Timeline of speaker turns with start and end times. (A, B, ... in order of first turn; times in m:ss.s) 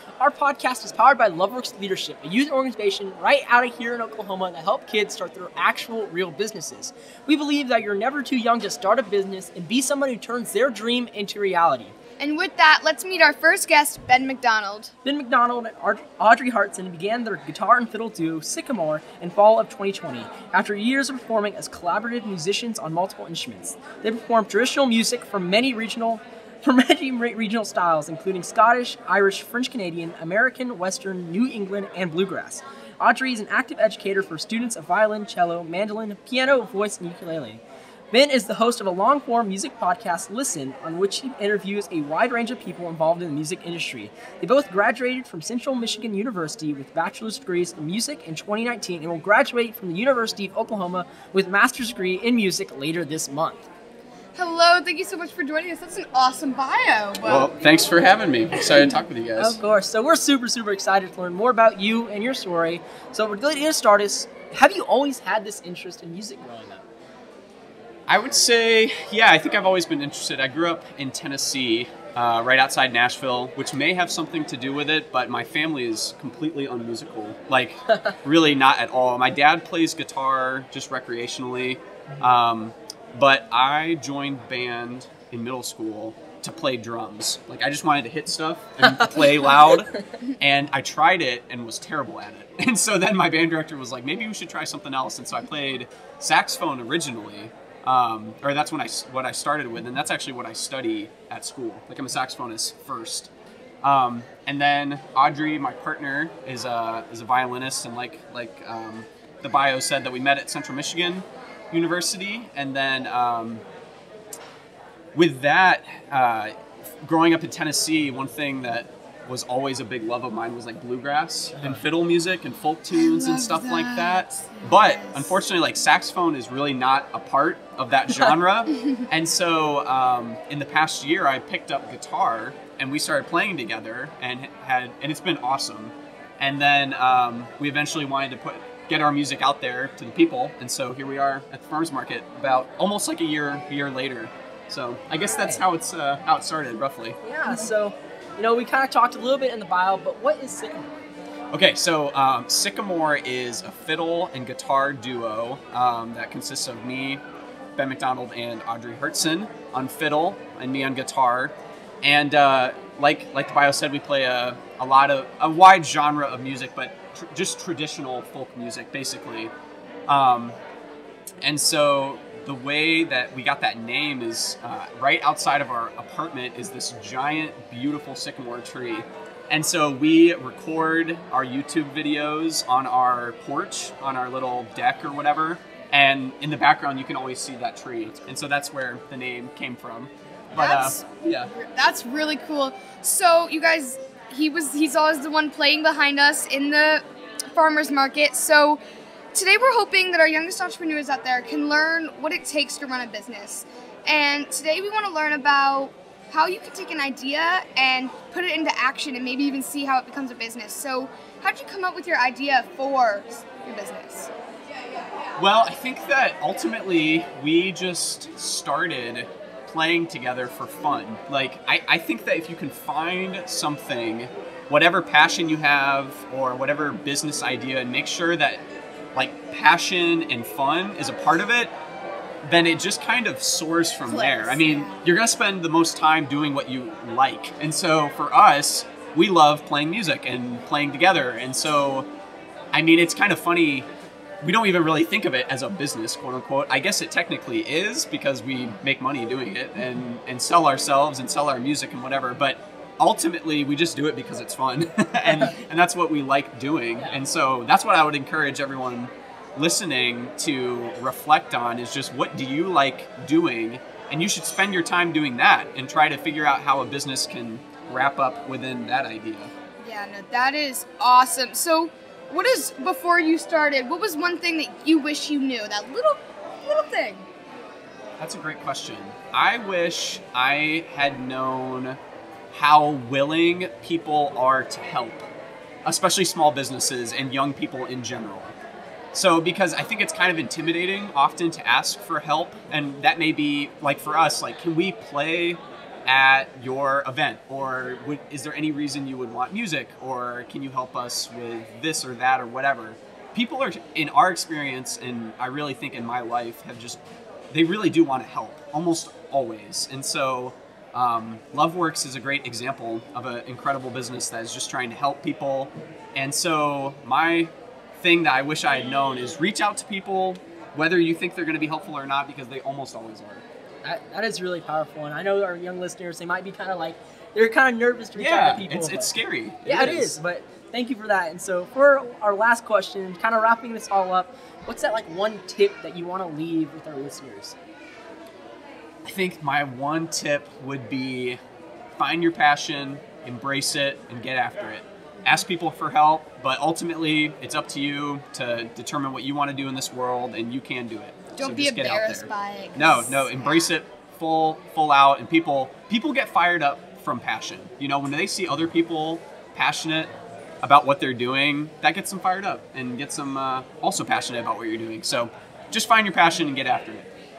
0:00.2-0:11.9 A
0:12.2-0:14.9 B
0:15.0-0:53.7 A
0:54.4-0:57.5 B
0:57.2-0:59.6 C
0:59.4-1:06.8 A
1:08.1-1:43.3 C
1:17.9-1:18.2 A
1:28.8-1:29.8 A
1:43.8-1:53.6 C
1:55.1-2:27.2 C
2:01.5-2:01.8 A
2:02.9-2:05.4 B
2:25.3-2:25.6 A
2:27.2-2:30.9 A
2:31.5-2:37.2 C
2:37.8-2:49.5 C
2:50.1-2:50.6 C
2:51.4-3:11.5 C
3:10.6-3:18.8 B
3:19.3-3:34.3 B
3:35.4-3:48.6 C
3:49.2-3:51.7 C
3:52.4-4:02.1 C
3:54.1-3:55.0 B
4:02.7-4:03.9 C
4:04.4-4:29.5 C
4:29.8-4:37.3 B
4:38.2-4:42.0 C
4:42.5-4:45.2 C
4:45.8-4:48.5 C
4:49.1-5:07.0 C
5:07.5-5:23.4 C
5:23.8-5:29.1 A
5:28.2-5:30.2 C
5:29.6-5:37.6 A
5:39.0-5:41.4 C
5:41.9-6:07.1 C
5:51.4-5:53.7 B